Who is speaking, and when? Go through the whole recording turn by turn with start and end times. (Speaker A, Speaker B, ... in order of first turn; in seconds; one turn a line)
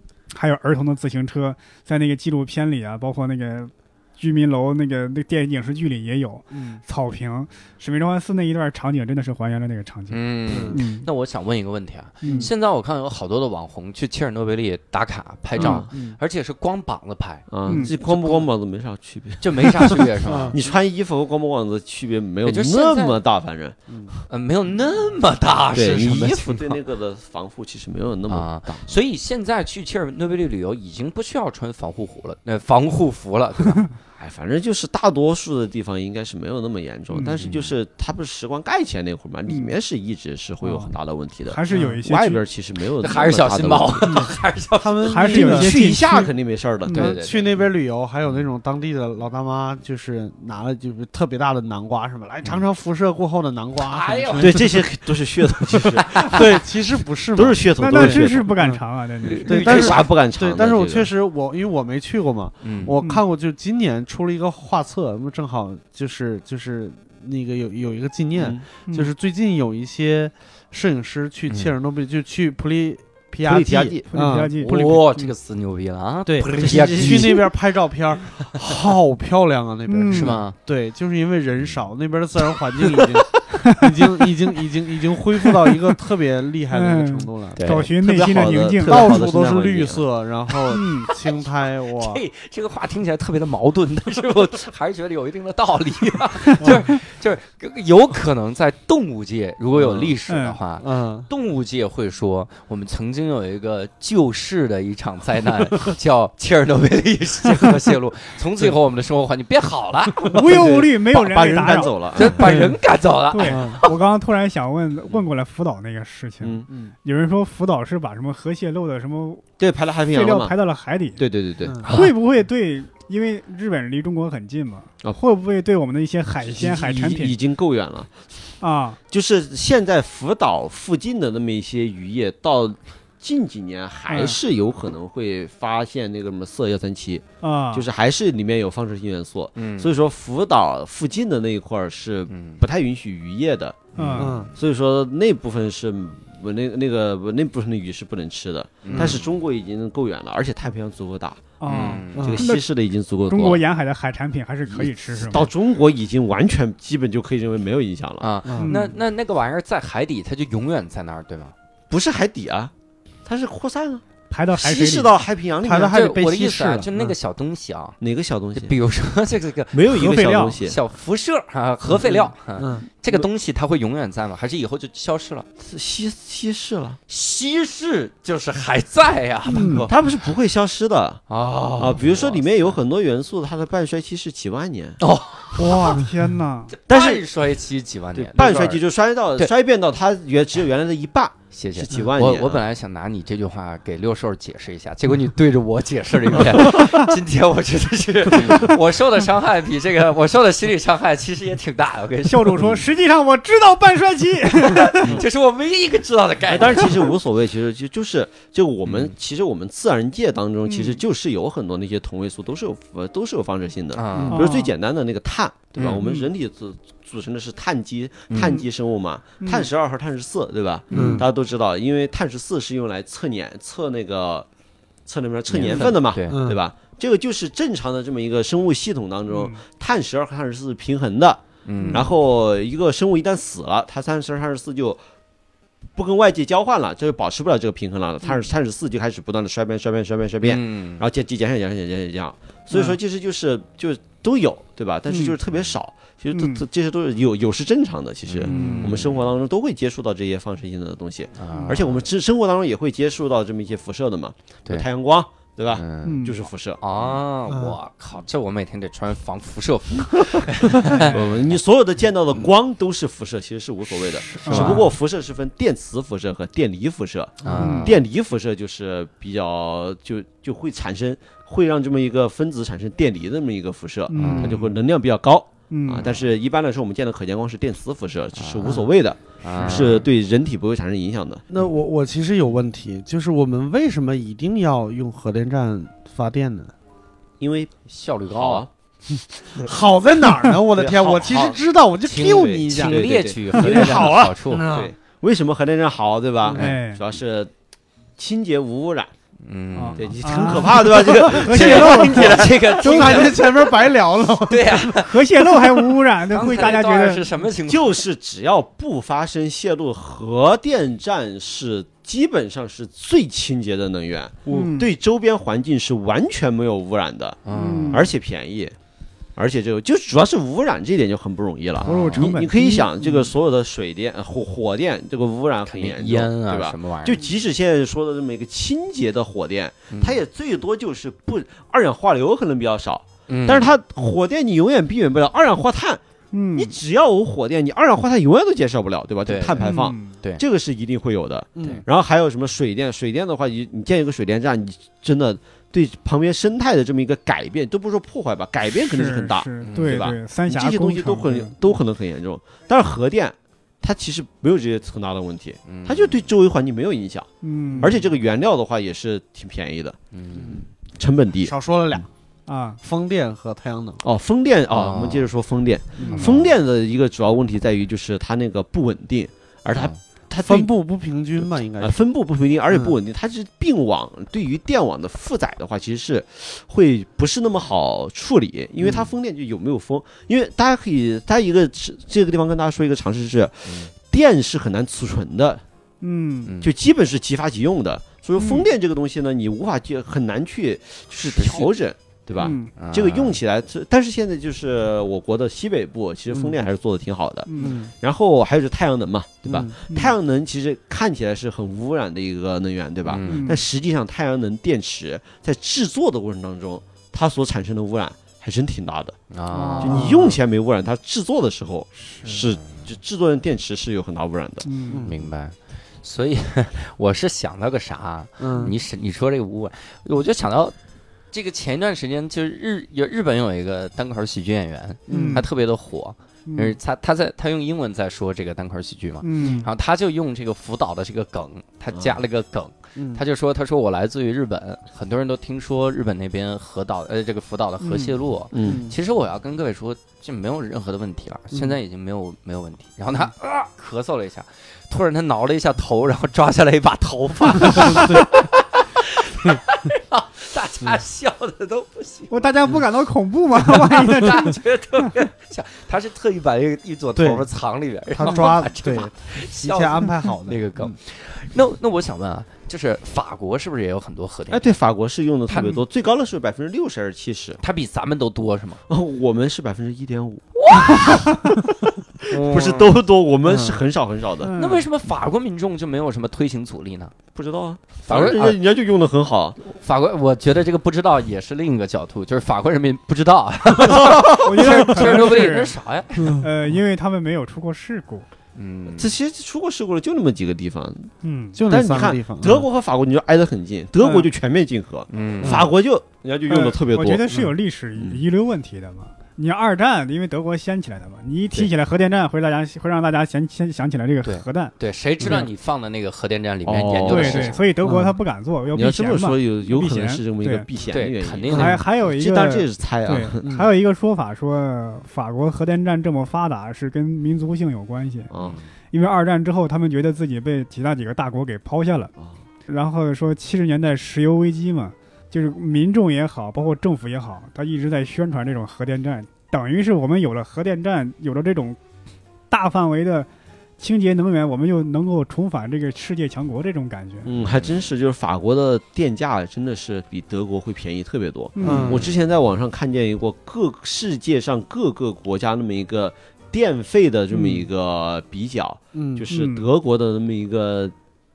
Speaker A: 0.3-11.1
Speaker B: 6.5-6.8
Speaker C: 10.1-18.5
Speaker B: 10.5-10.8
Speaker A: 12.2-12.5
Speaker B: 12.2-12.5
Speaker A: 15.6-15.8
Speaker B: 15.6-16.2
Speaker D: 15.6-15.8
Speaker D: 17.5-23.8
Speaker A: 17.6-17.9
Speaker C: 19.4-20.7
Speaker B: 20.2-20.6
Speaker C: 22.4-23.2
Speaker B: 23.9-24.1
Speaker C: 24.3-26.8
Speaker D: 25.7-28.9
Speaker C: 28.3-33.9
Speaker D: 34.2-44.2
Speaker A: 37.1-37.4
Speaker C: 37.4-37.7
Speaker A: 39.5-39.7
Speaker A: 40.6-40.9
Speaker A: 41.4-42.4
Speaker B: 41.7-42.0
Speaker C: 43.0-45.2
Speaker B: 44.8-45.8
Speaker A: 45.0-46.3
Speaker D: 45.3-47.2
Speaker C: 46.9-47.6
Speaker B: 46.9-54.8
Speaker C: 53.8-54.9
Speaker D: 54.4-56.4
Speaker C: 55.8-56.4
Speaker B: 56.1-58.8
Speaker D: 57.3-58.5
Speaker A: 57.8-59.9
Speaker C: 59.2-60.1
Speaker D: 59.3-61.1
Speaker B: 59.5-75.3
Speaker C: 62.6-63.0
Speaker D: 68.4-68.6
Speaker A: 68.9-69.1
Speaker C: 71.5-71.7
Speaker D: 73.4-74.1
Speaker A: 74.1-75.3
Speaker C: 74.6-77.5
Speaker B: 76.2-87.6
Speaker D: 76.6-77.4
Speaker A: 79.9-80.4
Speaker C: 80.1-80.5
Speaker A: 86.7-89.2
Speaker C: 87.5-87.9
Speaker D: 88.0-90.0
Speaker B: 88.7-92.2
Speaker A: 90.7-91.1
Speaker C: 91.9-110.6
Speaker B: 96.6-96.9
Speaker B: 99.7-100.1
Speaker A: 100.3-100.6
Speaker B: 100.8-101.3
Speaker A: 110.3-112.0
Speaker B: 110.4-110.8
Speaker D: 110.5-112.4
Speaker C: 112.1-113.9
Speaker B: 112.2-112.8
Speaker A: 113.3-119.5
Speaker B: 113.4-113.8
Speaker D: 116.4-116.7
Speaker D: 119.6-120.5
Speaker A: 120.1-121.2
Speaker D: 121.2-121.8
Speaker B: 121.6-121.9
Speaker C: 121.8-122.1
Speaker A: 121.8-127.4
Speaker D: 126.4-128.1
Speaker A: 128.6-129.0
Speaker D: 129.1-143.8
Speaker A: 134.1-134.3
Speaker A: 137.4-137.9
Speaker C: 139.6-139.9
Speaker C: 142.3-142.6
Speaker A: 143.9-144.3
Speaker C: 143.9-144.5
Speaker B: 144.2-144.5
Speaker D: 144.6-153.6
Speaker C: 148.8-149.3
Speaker B: 148.9-149.2
Speaker A: 151.6-152.7
Speaker C: 151.7-152.4
Speaker B: 152.1-152.5
Speaker A: 153.3-155.5
Speaker D: 154.7-158.3
Speaker C: 158.2-161.5
Speaker B: 158.4-158.7
Speaker A: 158.6-158.9
Speaker D: 161.9-162.7
Speaker D: 163.2-166.0
Speaker A: 164.3-165.2
Speaker B: 165.6-167.1
Speaker C: 165.9-168.0
Speaker D: 168.0-168.8
Speaker C: 168.5-175.5
Speaker D: 169.7-170.8
Speaker A: 169.9-170.6
Speaker B: 171.9-173.2
Speaker D: 175.6-177.0
Speaker C: 177.1-180.2
Speaker A: 179.5-179.9
Speaker B: 179.6-179.8
Speaker D: 179.9-181.2
Speaker C: 181.3-182.8
Speaker D: 181.8-185.0
Speaker C: 185.0-186.1
Speaker A: 185.6-186.7
Speaker C: 186.8-188.8
Speaker D: 186.9-187.2
Speaker D: 188.2-192.6
Speaker C: 191.5-202.8
Speaker D: 198.3-198.7
Speaker A: 202.3-205.0
Speaker C: 204.6-207.1
Speaker D: 206.5-224.5
Speaker C: 208.8-209.1
Speaker A: 210.7-211.0
Speaker C: 213.9-214.4
Speaker B: 214.1-214.4
Speaker A: 214.3-214.7
Speaker C: 215.8-216.0
Speaker A: 216.0-216.3
Speaker C: 218.3-218.6
Speaker A: 218.4-218.7
Speaker A: 219.4-219.7
Speaker B: 220.9-221.3
Speaker C: 220.9-221.2
Speaker A: 220.9-221.2
Speaker D: 225.1-231.4
Speaker C: 225.5-226.4
Speaker B: 225.6-226.6
Speaker A: 229.3-229.6
Speaker C: 231.7-232.1
Speaker A: 231.8-232.1
Speaker D: 231.9-235.0
Speaker D: 235.9-257.1
Speaker C: 240.4-241.0
Speaker A: 245.1-245.4
Speaker A: 246.3-246.6
Speaker C: 248.2-249.3
Speaker A: 248.4-249.0
Speaker C: 251.4-252.0
Speaker C: 255.7-261.6
Speaker A: 256.0-256.3
Speaker B: 257.5-257.8
Speaker D: 261.0-281.4
Speaker C: 264.3-264.9
Speaker A: 264.4-264.8
Speaker C: 267.4-268.0
Speaker A: 267.5-267.9
Speaker A: 274.1-274.6
Speaker C: 274.1-274.7
Speaker A: 275.7-276.1
Speaker C: 278.3-278.9
Speaker C: 279.4-280.1
Speaker B: 279.6-279.9
Speaker B: 281.5-286.7
Speaker D: 287.4-287.7
Speaker C: 287.9-288.6
Speaker D: 288.3-288.7
Speaker B: 289.5-293.1
Speaker D: 290.7-291.6
Speaker D: 292.1-297.5
Speaker C: 292.1-294.8
Speaker B: 293.7-294.9
Speaker A: 293.7-294.3
Speaker B: 296.4-296.7
Speaker A: 296.6-297.0
Speaker D: 298.2-299.1
Speaker C: 299.4-303.9
Speaker A: 299.7-303.3
Speaker D: 299.9-302.5
Speaker B: 301.4-305.0
Speaker C: 304.4-308.0
Speaker A: 304.9-307.2
Speaker D: 307.7-318.8
Speaker A: 314.5-314.9
Speaker C: 317.4-318.1
Speaker A: 317.5-318.1
Speaker D: 319.4-336.0
Speaker C: 321.8-322.4
Speaker A: 321.8-323.3
Speaker C: 325.6-327.2
Speaker C: 329.9-330.2
Speaker C: 333.3-333.7
Speaker A: 336.3-336.8
Speaker D: 336.5-360.0
Speaker C: 339.2-340.4
Speaker A: 339.6-340.1
Speaker B: 341.6-341.8
Speaker A: 348.7-351.5
Speaker C: 349.6-350.0
Speaker C: 355.7-356.3
Speaker A: 357.4-357.9
Speaker B: 357.7-358.1
Speaker C: 360.1-360.6
Speaker B: 360.3-360.6
Speaker D: 360.9-361.5
Speaker B: 361.4-362.1
Speaker A: 362.5-362.8
Speaker B: 362.8-364.0
Speaker D: 364.0-370.7
Speaker C: 364.7-365.3
Speaker B: 366.0-366.3
Speaker A: 366.0-366.2
Speaker C: 366.1-366.5
Speaker B: 370.4-372.0
Speaker D: 371.4-385.6
Speaker B: 372.7-372.9
Speaker C: 378.8-379.1
Speaker C: 383.6-383.9
Speaker A: 386.0-386.5
Speaker C: 386.4-386.7
Speaker D: 386.6-409.2
Speaker A: 388.4-388.6
Speaker C: 391.3-391.7
Speaker C: 392.4-393.4
Speaker A: 392.4-392.7
Speaker B: 396.3-396.6
Speaker A: 397.5-397.8
Speaker B: 397.6-397.9
Speaker B: 399.5-399.7
Speaker C: 403.1-403.5
Speaker A: 403.2-403.6
Speaker C: 409.3-410.4
Speaker A: 409.5-410.2
Speaker D: 409.8-414.7
Speaker A: 412.1-412.3
Speaker C: 412.3-412.8
Speaker A: 414.6-415.1
Speaker B: 414.9-415.3
Speaker C: 415.0-420.7
Speaker B: 418.4-418.7
Speaker C: 421.3-452.4
Speaker B: 425.1-425.4
Speaker A: 425.1-425.4
Speaker A: 426.5-426.8
Speaker A: 429.2-429.7
Speaker B: 432.9-433.2
Speaker A: 437.8-438.1
Speaker D: 438.5-438.8
Speaker B: 438.6-438.9
Speaker B: 441.5-441.8
Speaker B: 447.7-448.3
Speaker A: 452.3-454.6
Speaker C: 453.6-464.8
Speaker B: 457.1-457.4
Speaker B: 458.1-461.0
Speaker D: 464.5-467.6
Speaker C: 465.5-465.8
Speaker C: 467.6-468.8
Speaker D: 468.9-471.3
Speaker C: 470.6-471.5
Speaker D: 472.2-474.5
Speaker C: 472.3-473.0
Speaker B: 473.4-473.8
Speaker A: 474.4-474.9
Speaker C: 474.5-477.1
Speaker D: 477.3-479.6
Speaker C: 478.0-478.6
Speaker C: 479.7-486.4
Speaker D: 483.8-485.2
Speaker A: 484.2-485.7
Speaker B: 486.2-486.4
Speaker A: 486.4-488.3
Speaker C: 488.5-489.1
Speaker D: 488.9-491.1
Speaker A: 491.2-491.6
Speaker B: 491.5-492.7
Speaker D: 491.7-497.2
Speaker A: 494.0-494.3
Speaker C: 495.1-495.7
Speaker B: 495.4-495.7
Speaker A: 496.5-504.7
Speaker B: 497.3-497.5
Speaker D: 498.0-498.2
Speaker C: 504.2-507.6
Speaker D: 506.6-507.6
Speaker A: 507.1-510.6
Speaker B: 507.8-508.1
Speaker D: 508.7-513.4
Speaker C: 510.9-511.8
Speaker B: 511.5-511.8
Speaker A: 511.5-518.3
Speaker B: 513.4-513.7
Speaker D: 518.3-518.6
Speaker C: 518.4-518.7
Speaker A: 518.9-522.1
Speaker A: 522.7-531.8
Speaker A: 532.5-533.3
Speaker A: 533.8-537.3
Speaker D: 537.2-550.9
Speaker A: 541.5-542.0
Speaker B: 541.6-542.1
Speaker B: 547.3-547.6
Speaker B: 548.9-549.2
Speaker A: 549.3-549.7